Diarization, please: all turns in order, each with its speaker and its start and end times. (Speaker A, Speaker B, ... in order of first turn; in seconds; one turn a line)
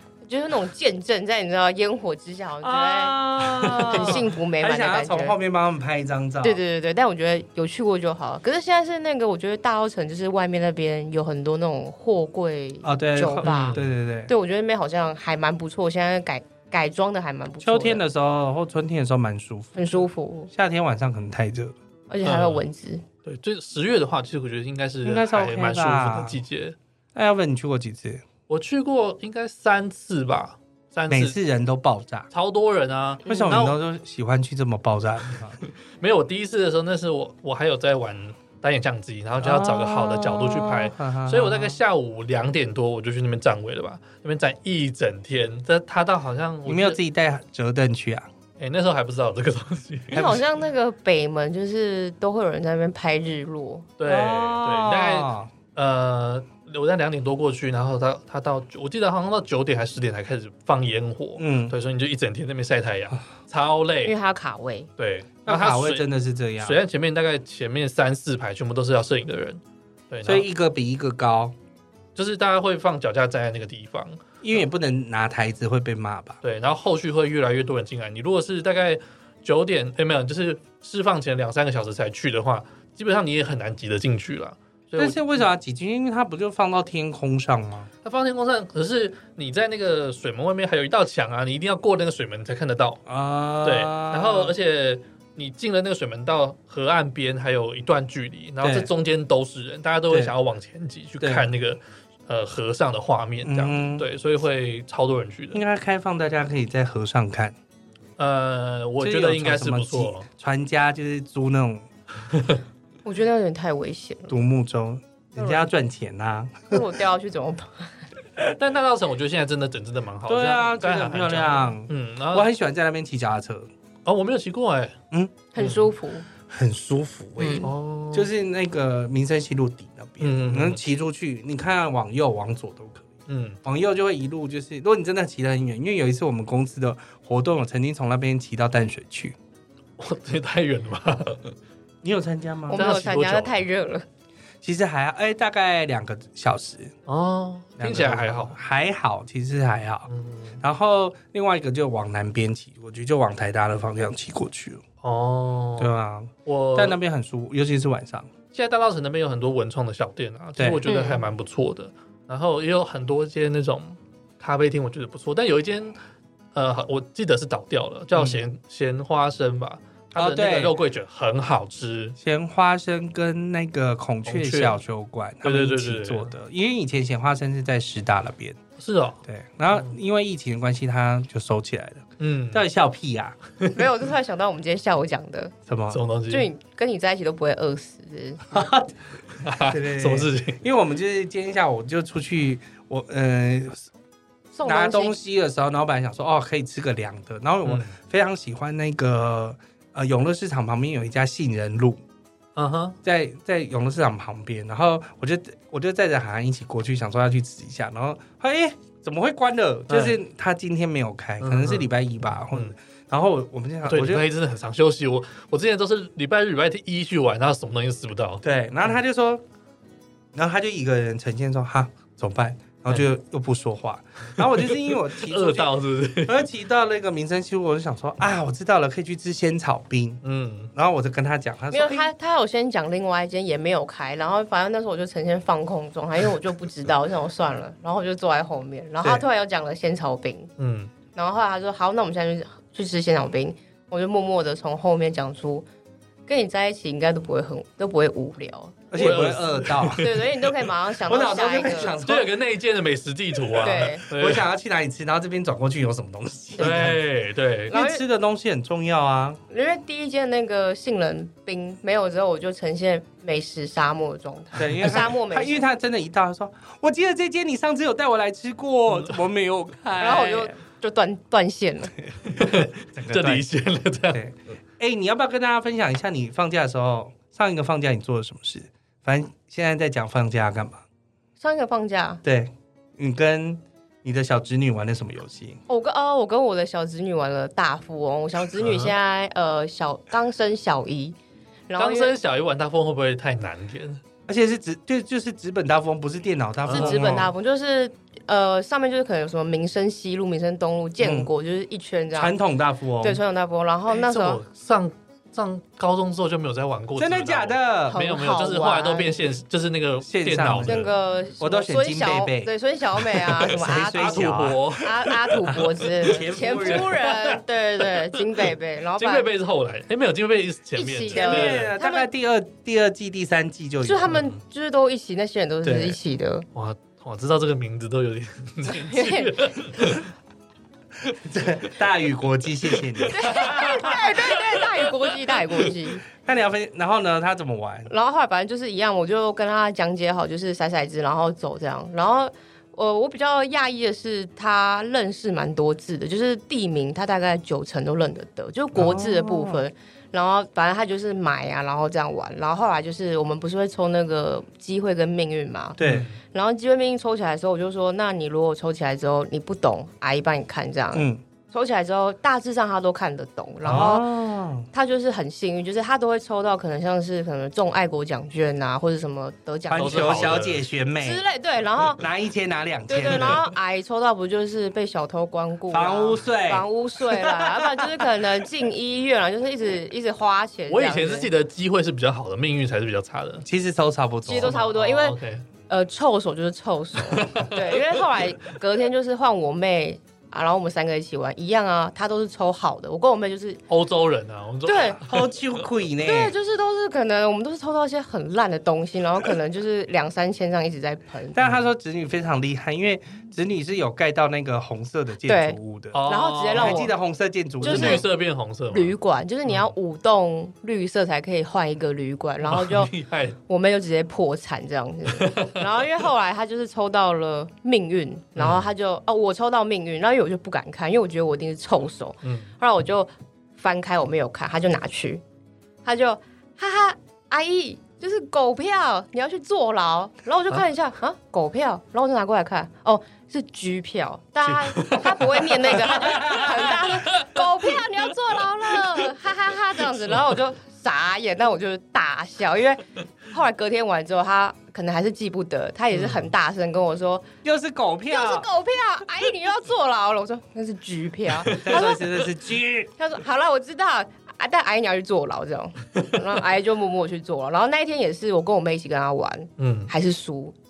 Speaker A: 0.2-5.4
Speaker B: 2.6-6.6
Speaker C: 3.7-4.2
Speaker A: 6.4-18.0
Speaker B: 12.8-14.3
Speaker C: 13.4-13.9
Speaker B: 17.6-21.8
Speaker A: 19.8-20.5
Speaker A: 22.1-23.0
Speaker C: 22.2-22.6
Speaker C: 23.2-26.8
Speaker B: 25.0-26.4
Speaker B: 27.1-28.2
Speaker C: 28.5-31.4
Speaker B: 31.1-32.3
Speaker C: 32.3-33.8
Speaker B: 33.2-35.6
Speaker C: 36.0-47.0
Speaker B: 39.4-41.8
Speaker B: 46.7-48.3
Speaker C: 48.6-50.4
Speaker A: 50.1-53.9
Speaker B: 50.1-50.4
Speaker C: 54.0-64.2
Speaker B: 54.0-55.5
Speaker B: 61.4-61.8
Speaker A: 64.0-64.9
Speaker C: 65.0-66.1
Speaker B: 65.5-66.8
Speaker C: 66.6-70.5
Speaker B: 70.2-71.5
Speaker C: 72.2-74.2
Speaker B: 74.4-76.4
Speaker C: 76.4-85.3
Speaker B: 85.0-87.9
Speaker C: 88.0-93.0
Speaker B: 93.1-94.5
Speaker C: 93.6-105.6
Speaker B: 98.6-98.9
Speaker B: 101.2-101.5
Speaker B: 103.4-104.1
Speaker B: 105.5-107.6
Speaker C: 108.2-110.3
Speaker B: 109.0-111.9
Speaker A: 113.0-114.3
Speaker B: 114.3-116.8
Speaker A: 115.4-115.7
Speaker A: 116.7-118.0
Speaker C: 118.6-122.5
Speaker B: 120.3-123.7
Speaker C: 124.1-125.0
Speaker B: 125.1-125.4
Speaker A: 125.5-126.3
Speaker C: 125.6-125.9
Speaker B: 126.5-133.1
Speaker A: 127.4-127.7
Speaker C: 127.6-128.3
Speaker C: 130.2-130.8
Speaker C: 133.3-133.6
Speaker B: 133.6-139.4
Speaker C: 140.0-141.6
Speaker B: 142.0-143.0
Speaker A: 142.7-144.1
Speaker C: 142.7-143.6
Speaker B: 144.6-146.9
Speaker C: 147.1-148.6
Speaker B: 147.8-150.1
Speaker C: 150.1-150.6
Speaker B: 150.6-154.8
Speaker C: 155.0-155.9
Speaker B: 155.8-158.3
Speaker C: 156.5-157.0
Speaker C: 158.5-166.0
Speaker B: 160.6-160.9
Speaker A: 160.9-161.2
Speaker C: 166.5-172.2
Speaker B: 168.2-168.4
Speaker B: 170.1-170.8
Speaker B: 172.2-178.6
Speaker C: 174.2-174.8
Speaker C: 175.4-176.3
Speaker C: 178.8-179.2
Speaker B: 179.3-183.4
Speaker C: 182.2-182.6
Speaker A: 183.7-185.5
Speaker B: 185.7-186.0
Speaker C: 185.9-186.5
Speaker A: 186.3-188.6
Speaker B: 188.5-189.0
Speaker C: 189.4-190.6
Speaker B: 189.7-193.9
Speaker A: 194.5-195.2
Speaker B: 194.7-202.0
Speaker C: 197.6-197.9
Speaker C: 202.6-203.0
Speaker B: 203.0-214.2
Speaker C: 209.9-210.2
Speaker C: 211.4-211.9
Speaker C: 213.8-219.0
Speaker B: 218.4-219.4
Speaker B: 220.3-230.2
Speaker C: 224.4-226.5
Speaker C: 230.2-230.7
Speaker B: 230.7-232.1
Speaker A: 231.7-240.5
Speaker C: 240.6-240.9
Speaker A: 241.1-245.7
Speaker A: 246.3-248.8
Speaker B: 248.9-250.0
Speaker C: 248.9-250.3
Speaker A: 250.0-251.9
Speaker B: 251.1-252.3
Speaker C: 251.8-254.5
Speaker B: 253.6-257.0
Speaker A: 253.6-254.0
Speaker C: 256.6-257.8
Speaker B: 257.7-259.4
Speaker A: 257.7-258.0
Speaker A: 259.5-265.6
Speaker B: 264.6-270.5
Speaker A: 270.0-271.9
Speaker C: 272.3-274.2
Speaker B: 272.4-273.5
Speaker B: 274.1-280.8
Speaker A: 281.4-282.2
Speaker B: 282.2-285.6
Speaker A: 285.7-291.2
Speaker C: 288.6-288.9
Speaker A: 291.7-292.2
Speaker C: 291.8-294.0
Speaker B: 294.3-297.3
Speaker C: 296.7-297.2
Speaker A: 296.7-302.4
Speaker B: 301.0-301.3
Speaker B: 302.1-303.2
Speaker A: 303.0-304.4
Speaker C: 303.9-310.9
Speaker B: 307.0-308.0
Speaker A: 307.9-309.3
Speaker B: 310.0-312.5
Speaker A: 310.6-319.3
Speaker B: 313.2-314.7
Speaker C: 313.9-318.2
Speaker B: 315.5-316.9
Speaker C: 319.0-321.7
Speaker A: 320.8-322.1
Speaker B: 321.1-324.2
Speaker A: 323.8-326.5
Speaker B: 325.6-326.0
Speaker C: 326.5-330.1
Speaker A: 328.6-329.5
Speaker B: 331.1-334.0
Speaker C: 333.0-334.9
Speaker A: 333.1-336.0
Speaker B: 336.2-337.9
Speaker A: 337.9-355.8
Speaker B: 348.8-349.6
Speaker B: 355.8-356.1
Speaker C: 355.8-356.2
Speaker A: 356.3-364.1
Speaker B: 360.9-361.2
Speaker B: 363.6-364.7
Speaker C: 363.6-363.9
Speaker A: 364.7-370.4
Speaker B: 369.7-371.2
Speaker C: 369.7-370.6
Speaker A: 371.0-372.0
Speaker B: 372.0-373.4
Speaker A: 372.9-381.3
Speaker C: 373.1-373.4
Speaker B: 375.7-378.0
Speaker C: 380.7-383.5
Speaker B: 383.4-384.6
Speaker A: 384.3-393.6
Speaker C: 384.4-385.5
Speaker C: 387.0-388.0
Speaker C: 393.7-395.6
Speaker A: 394.7-395.0
Speaker B: 395.0-396.4
Speaker A: 396.0-401.4
Speaker B: 401.4-408.1
Speaker A: 405.2-406.9
Speaker C: 405.9-406.8
Speaker C: 407.6-409.7
Speaker A: 407.6-408.1
Speaker A: 408.7-412.9
Speaker C: 412.4-413.4
Speaker A: 413.5-425.2
Speaker C: 415.1-415.6
Speaker C: 418.4-418.7
Speaker C: 422.2-422.5
Speaker A: 425.8-447.2
Speaker B: 434.5-436.9
Speaker C: 434.8-437.4
Speaker C: 445.9-446.3
Speaker B: 447.4-448.5
Speaker A: 448.1-452.1
Speaker B: 451.5-452.9
Speaker A: 453.0-460.6
Speaker C: 459.6-459.9